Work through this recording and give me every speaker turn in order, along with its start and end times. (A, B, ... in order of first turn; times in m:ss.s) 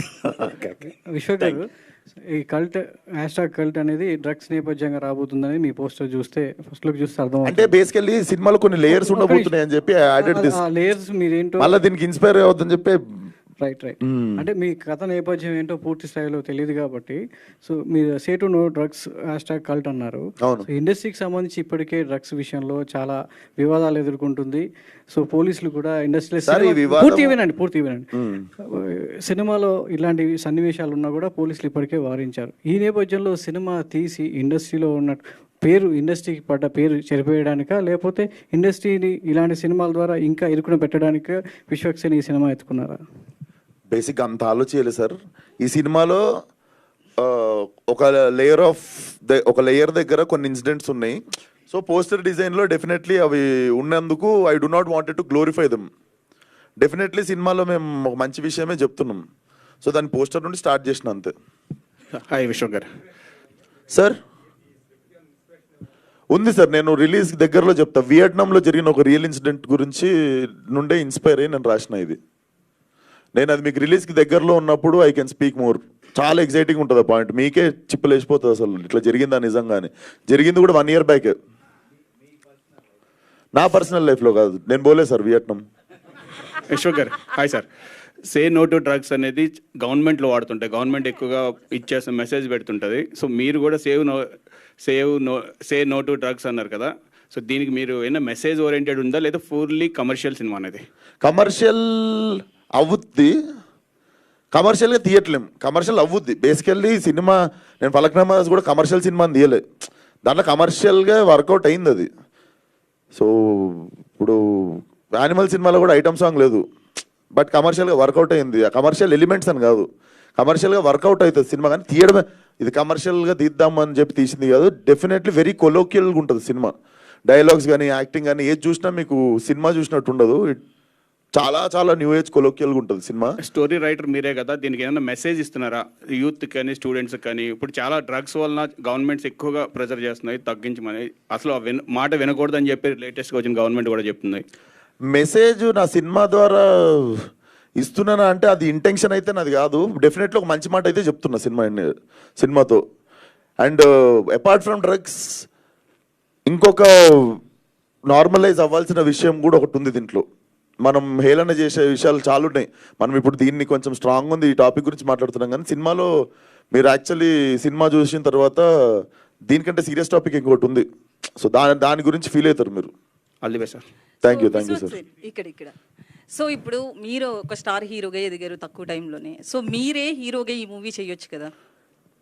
0:00.4-0:01.7 A
0:02.3-0:07.7 A
0:07.4-0:10.6 B
0:08.9-0:09.5 A
0:10.2-0:11.8 A
0:11.6-0:13.0 B
0:13.6-0:28.1 A
0:14.0-0:14.4 B
0:20.4-0:20.7 B
0:26.5-0:27.4 B
0:28.1-0:28.5 B
0:28.8-0:43.0 A
0:43.9-0:46.2 B
0:47.2-0:55.9 B
0:56.8-0:59.2 B
0:59.8-1:01.3 B
1:02.2-1:02.9 C
1:03.9-1:04.2 B
1:06.3-1:12.2 B
1:13.4-1:21.4 B
1:23.5-1:25.6 B
1:26.7-1:27.7 C
1:28.3-1:34.3 C
1:34.8-1:40.8 C
1:41.2-1:43.3 B
1:44.5-1:49.6 B
1:50.2-1:52.1 B
1:53.1-1:56.6 B
1:57.3-2:10.6 B
2:11.3-2:13.4 B
2:13.4-2:24.4 C
2:25.1-2:27.3 B
2:27.8-2:32.8 B
2:33.6-2:35.5 B
2:36.5-2:37.4 B
2:38.1-2:40.3 B
2:40.8-2:46.1 B
2:46.7-2:50.9 B
2:51.4-2:52.9 B
2:53.4-2:53.8 C
2:54.2-2:55.0 B
2:54.2-2:55.8 D
2:56.3-3:01.5 D